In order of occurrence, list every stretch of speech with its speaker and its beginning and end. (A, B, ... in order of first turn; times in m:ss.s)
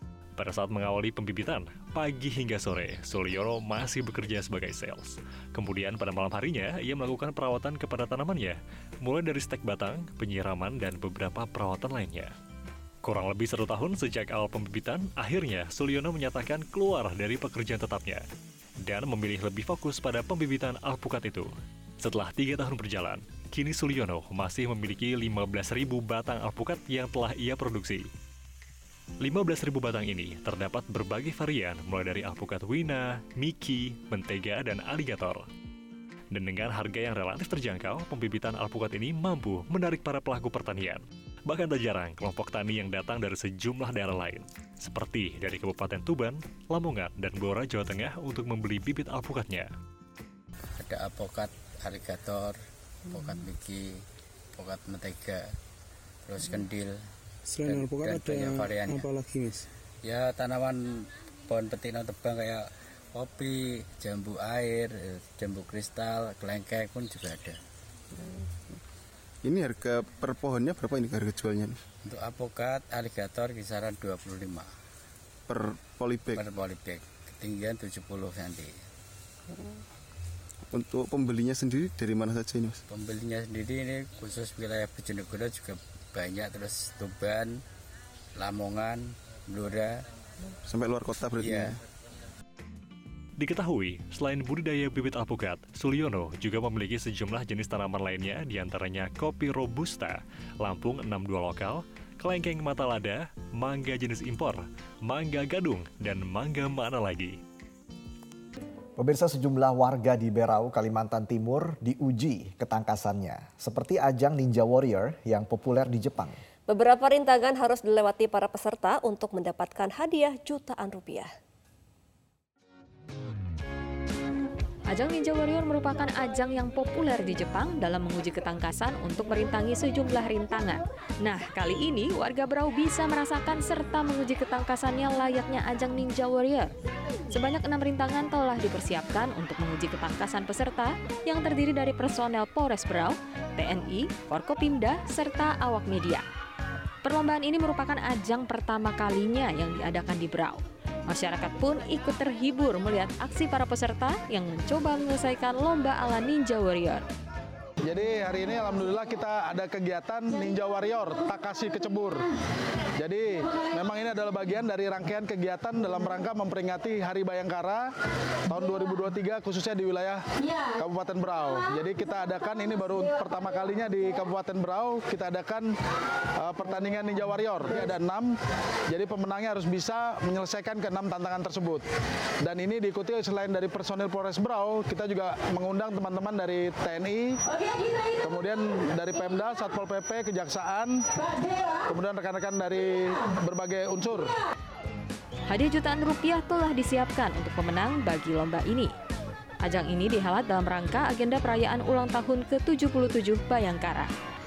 0:00.4-0:12.3 A
0:13.0-0:18.2 A
0:18.9-0:21.5 A
0:22.0-0:28.1 A
0:29.2-0:35.4 A
0:36.3-0:49.7 A
0:50.8-0:52.6 B
0:53.1-0:54.0 B
0:54.6-0:55.6 B
0:56.2-0:57.0 B
0:57.5-0:59.7 C
0:57.6-0:59.2 B
1:00.0-1:07.6 B
1:09.4-1:11.8 D
1:12.0-1:14.7 B
1:15.5-1:16.4 D
1:16.3-1:18.8 B
1:20.7-1:22.8 D
1:22.9-1:27.6 B
1:28.4-1:30.0 B
1:30.6-1:31.8 D
1:31.4-1:31.7 B
1:33.4-1:47.4 A
1:49.0-1:56.4 E
1:56.7-2:01.3 F
2:04.9-2:16.7 G
2:17.3-2:26.2 G
2:27.0-2:37.0 G
2:37.9-2:42.3 H
2:43.0-2:47.9 H
2:48.5-2:50.2 H
2:50.8-2:55.7 H
2:56.4-2:58.3 H
2:58.9-3:01.8 H
3:02.4-3:07.2 H
3:08.2-3:10.9 H
3:11.9-3:14.3 H
3:15.5-3:18.9 G
3:19.6-3:24.1 G